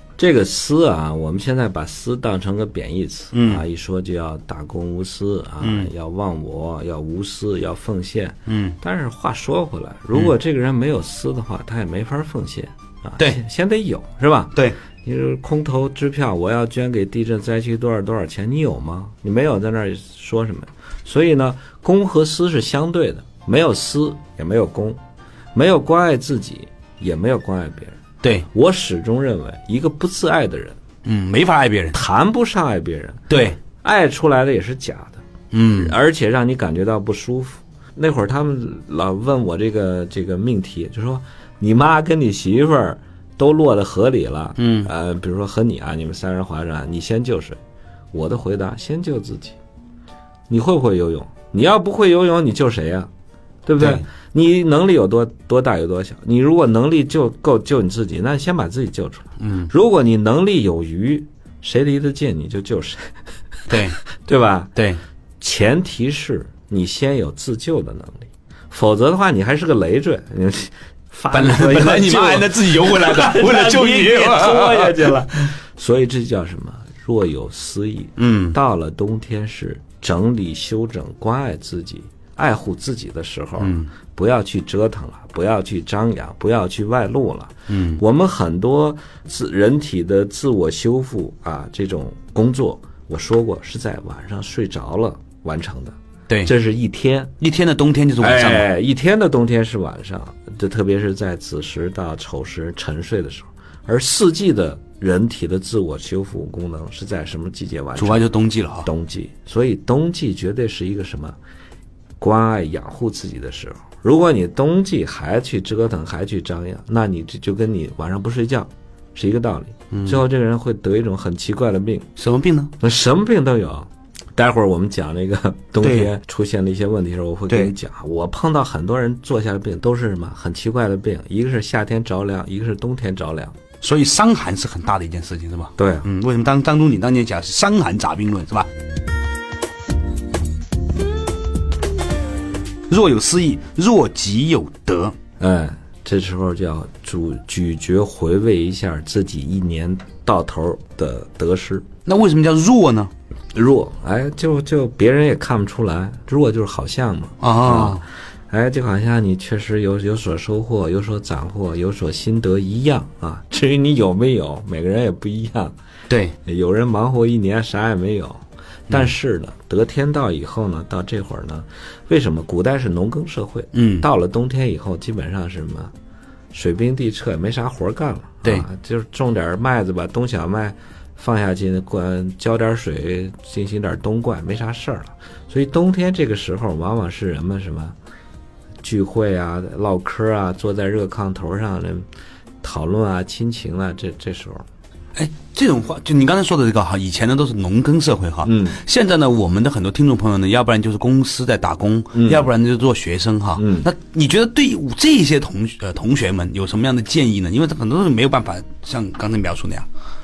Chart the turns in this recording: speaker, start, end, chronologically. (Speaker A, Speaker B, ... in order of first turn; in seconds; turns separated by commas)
Speaker A: 0.2-25.0, Speaker B: 3.3-3.6, Speaker B: 5.6-5.9, Speaker B: 8.5-8.8, Speaker A: 25.5-30.8, Speaker B: 31.0-32.0, Speaker A: 31.9-47.6, Speaker B: 33.3-33.6, Speaker B: 35.5-36.0, Speaker B: 44.6-44.9, Speaker A: 48.1-49.6, Speaker A: 50.5-53.1, Speaker A: 53.6-64.7, Speaker B: 53.8-54.0, Speaker B: 59.4-59.7, Speaker B: 63.7-64.0, Speaker B: 64.8-65.0, Speaker A: 65.4-97.3, Speaker B: 71.3-75.2, Speaker B: 78.2-78.6, Speaker B: 83.6-83.9, Speaker B: 87.7-88.0, Speaker B: 97.4-98.7, Speaker A: 98.2-108.3, Speaker B: 108.0-108.9, Speaker A: 108.8-111.4, Speaker A: 112.2-122.1, Speaker B: 119.9-120.2, Speaker B: 122.2-122.7, Speaker A: 122.8-133.6, Speaker B: 125.8-126.1, Speaker B: 133.8-138.7, Speaker A: 135.8-136.1, Speaker B: 142.9-145.2, Speaker A: 145.4-151.9, Speaker B: 152.1-153.1, Speaker A: 153.5-165.8, Speaker B: 157.4-158.0, Speaker B: 166.1-166.4, Speaker A: 166.4-175.9, Speaker B: 173.7-174.1, Speaker A: 176.5-187.9, Speaker A: 188.8-192.1, Speaker A: 192.6-194.7, Speaker B: 195.1-209.9, Speaker A: 198.4-198.8, Speaker A: 202.1-202.5, Speaker A: 203.6-203.9